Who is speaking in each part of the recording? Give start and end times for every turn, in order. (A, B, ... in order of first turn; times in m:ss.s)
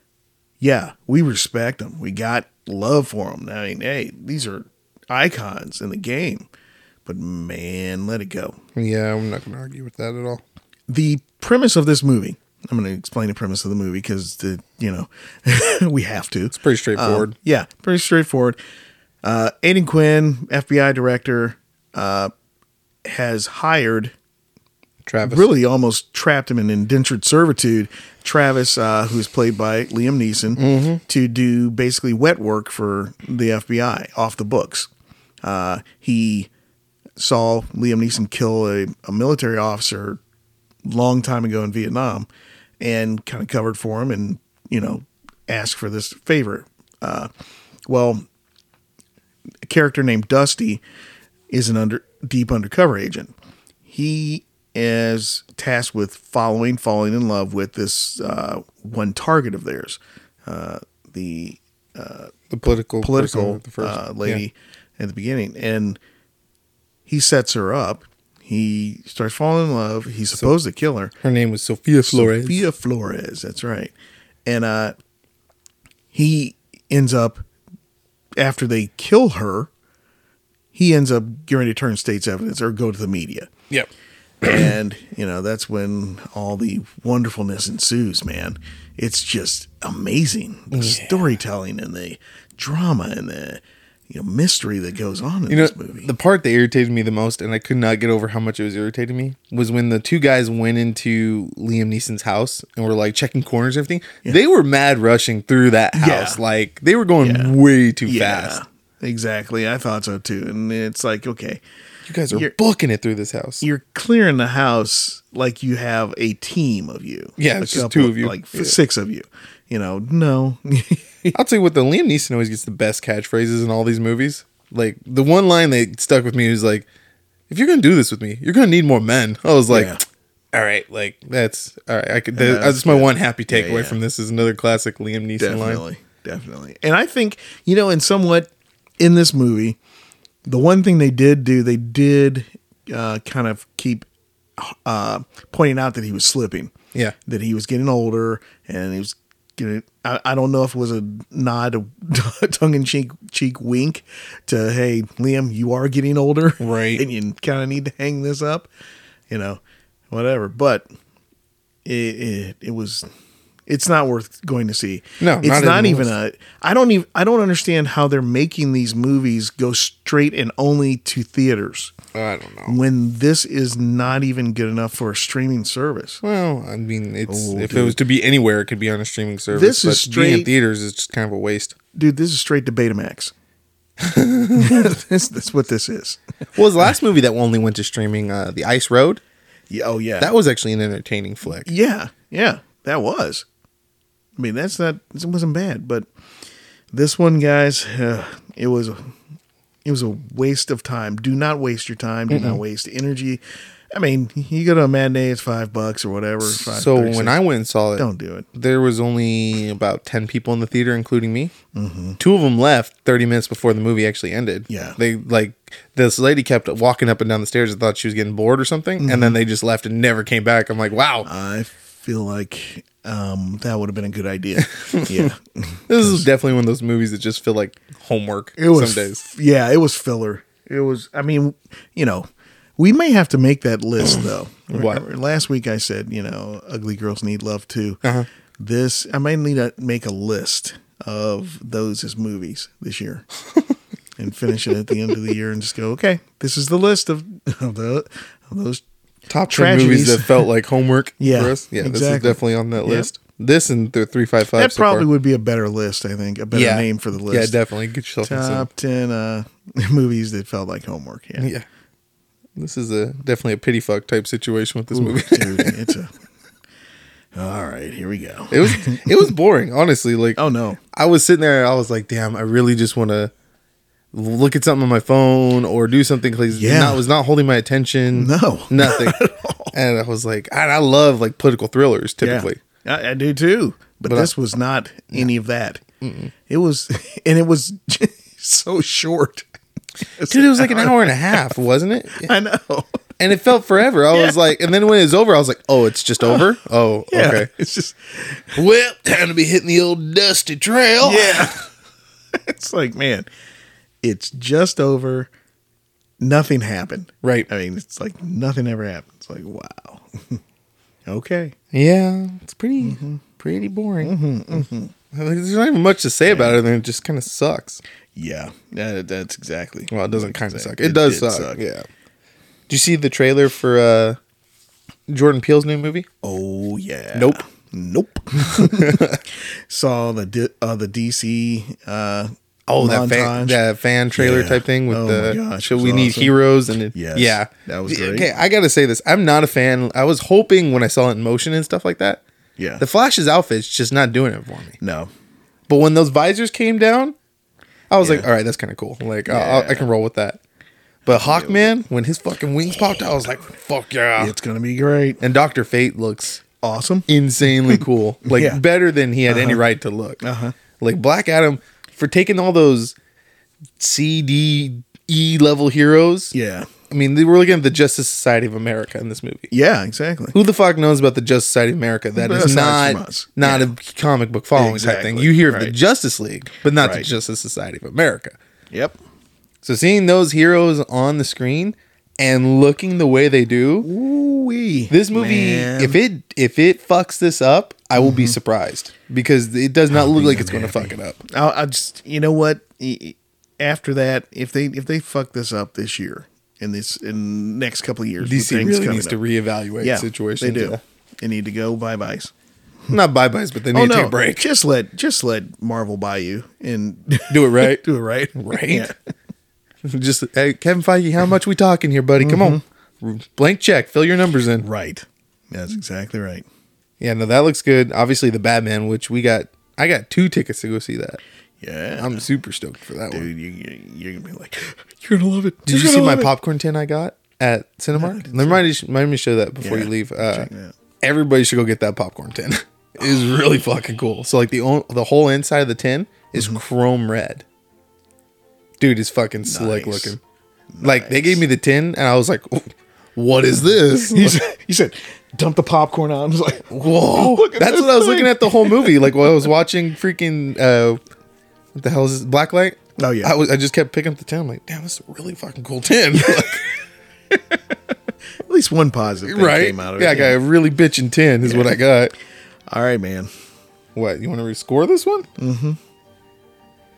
0:00.6-0:06.5 A
0:07.0-0:08.6 A
0:08.8-0:10.4 B
0:10.9-0:18.6 A
0:16.5-0:17.3 B
0:19.2-0:22.3 A
0:23.0-0:24.1 A
0:25.0-0:25.5 B
0:25.2-0:34.9 A
0:30.6-0:31.0 B
0:35.4-0:36.5 A
0:37.2-0:40.2 A
0:40.8-0:42.3 A
0:42.8-0:47.3 A
0:47.8-0:48.2 A
0:49.6-0:50.8 A
0:51.5-0:53.3 A
0:53.9-1:02.3 A
1:02.5-1:04.4 B
1:03.0-1:06.0 A
1:07.1-1:11.1 A
1:11.2-1:12.7 B
1:12.0-1:13.9 A
1:14.4-1:14.9 A
1:16.1-1:17.4 A
1:18.4-1:19.7 A
1:20.7-1:23.5 A
1:24.4-1:36.1 A
1:30.7-1:31.4 B
1:35.5-1:48.6 B
1:45.9-1:46.4 A
1:47.2-1:47.5 A
1:48.0-1:51.6 A
1:52.1-1:53.6 B
1:53.6-2:01.4 A
1:57.4-1:58.8 B
2:01.3-2:06.9 B
2:07.5-2:10.0 B
2:09.7-2:10.0 A
2:10.5-2:15.8 B
2:12.4-2:14.0 A
2:15.4-2:19.8 A
2:20.4-2:24.0 A
2:24.6-2:26.7 A
2:27.2-2:38.7 A
2:36.6-2:37.0 B
2:39.3-2:40.8 A
2:41.8-2:43.0 A
2:43.7-2:51.9 A
2:45.2-2:46.1 B
2:52.1-2:52.8 B
2:52.7-2:56.2 A
2:56.2-3:01.8 B
2:57.3-2:58.0 A
2:59.5-3:00.5 A
3:01.9-3:03.3 A
3:04.0-3:04.9 B
3:04.5-3:06.2 A
3:06.6-3:09.2 B
3:09.7-3:10.3 A
3:10.2-3:11.7 B
3:11.5-3:13.4 A
3:14.4-3:16.1 A
3:16.9-3:19.1 A
3:19.8-3:27.4 A
3:22.3-3:22.6 B
3:26.4-3:31.5 B
3:28.0-3:28.5 A
3:31.7-3:32.2 A
3:32.2-3:41.3 B
3:34.7-3:35.0 A
3:39.0-3:39.4 A
3:41.2-3:46.2 A
3:44.7-3:45.3 B
3:45.9-3:49.2 B
3:48.6-3:52.2 A
3:52.8-3:58.0 A
3:54.7-3:55.0 B
3:58.6-4:03.2 A
4:04.2-4:08.8 A
4:09.3-4:15.0 B
4:09.5-4:10.5 A
4:11.2-4:13.1 A
4:14.5-4:17.6 A
4:16.5-4:18.7 B
4:18.2-4:21.5 A
4:21.4-4:21.6 B
4:22.6-4:25.9 B
4:24.9-4:26.1 A
4:27.3-4:29.3 A
4:28.5-4:30.4 B
4:30.4-4:30.8 A
4:30.9-4:33.3 B
4:34.1-4:39.2 B
4:36.5-4:37.0 A
4:38.1-4:39.7 A
4:39.7-4:42.6 B
4:42.2-4:45.8 A
4:46.0-4:46.3 B
4:46.5-4:49.5 A
4:50.2-4:51.5 A
4:50.3-4:52.3 B
4:52.2-4:53.0 A
4:53.2-4:57.5 B
4:54.1-4:54.4 A
4:56.2-4:56.5 A
4:57.1-4:58.6 A
4:58.6-5:01.5 B
5:01.0-5:01.6 A
5:02.3-5:03.3 A
5:04.0-5:05.3 A
5:06.2-5:10.4 A
5:07.2-5:07.5 B
5:11.0-5:11.6 A
5:11.7-5:17.8 B
5:12.8-5:13.2 A
5:14.0-5:14.9 A
5:16.2-5:16.6 A
5:18.2-5:21.6 A
5:19.9-5:21.8 B
5:22.7-5:24.2 B
5:25.1-5:26.0 B
5:26.2-5:33.6 A
5:28.4-5:29.2 B
5:32.8-5:42.2 B
5:34.1-5:36.4 A
5:36.9-5:38.3 A
5:42.6-5:42.8 A
5:42.8-5:44.8 B
5:44.8-5:45.1 A
5:45.7-5:47.1 B
5:47.9-5:50.4 B
5:48.0-5:48.3 A
5:49.3-5:49.9 A
5:51.0-5:51.7 A
5:51.0-5:54.3 B
5:54.2-5:55.2 A
5:55.2-5:56.4 B
5:56.6-5:58.6 A
5:57.1-6:00.2 B
5:59.3-5:59.6 A
6:00.2-6:00.6 A
6:00.8-6:02.9 B
6:03.8-6:06.3 B
6:06.3-6:06.7 A
6:06.9-6:09.5 B
6:09.5-6:10.3 A
6:10.3-6:18.4 B
6:12.2-6:13.7 A
6:14.5-6:15.7 A
6:16.8-6:17.1 A
6:18.7-6:19.0 A
6:19.6-6:23.9 B
6:23.8-6:26.0 A
6:24.9-6:31.2 B
6:28.0-6:28.4 A
6:29.9-6:39.2 A
6:38.2-6:40.8 B
6:39.8-6:42.3 A
6:42.9-6:44.4 B
6:43.7-6:49.0 A
6:47.3-6:47.8 B
6:48.3-6:48.9 B
6:49.8-6:54.6 B
6:52.2-6:52.6 A
6:54.6-6:56.4 A
6:57.0-7:01.2 B
7:01.6-7:02.2 A
7:02.0-7:03.3 B
7:03.1-7:06.3 A
7:05.7-7:10.5 B
7:07.9-7:08.6 A
7:09.6-7:10.7 A
7:11.0-7:17.4 B
7:18.8-7:20.2 B
7:19.4-7:20.2 A
7:20.7-7:21.4 A
7:20.8-7:24.4 B
7:24.1-7:29.1 A
7:26.7-7:31.0 B
7:31.7-7:36.6 B
7:33.0-7:33.3 A
7:36.1-7:36.6 A
7:37.3-7:37.9 A
7:38.5-7:40.4 A
7:39.2-7:42.1 B
7:41.4-7:41.8 A
7:42.7-7:43.3 A
7:43.9-7:45.3 B
7:45.4-7:45.8 A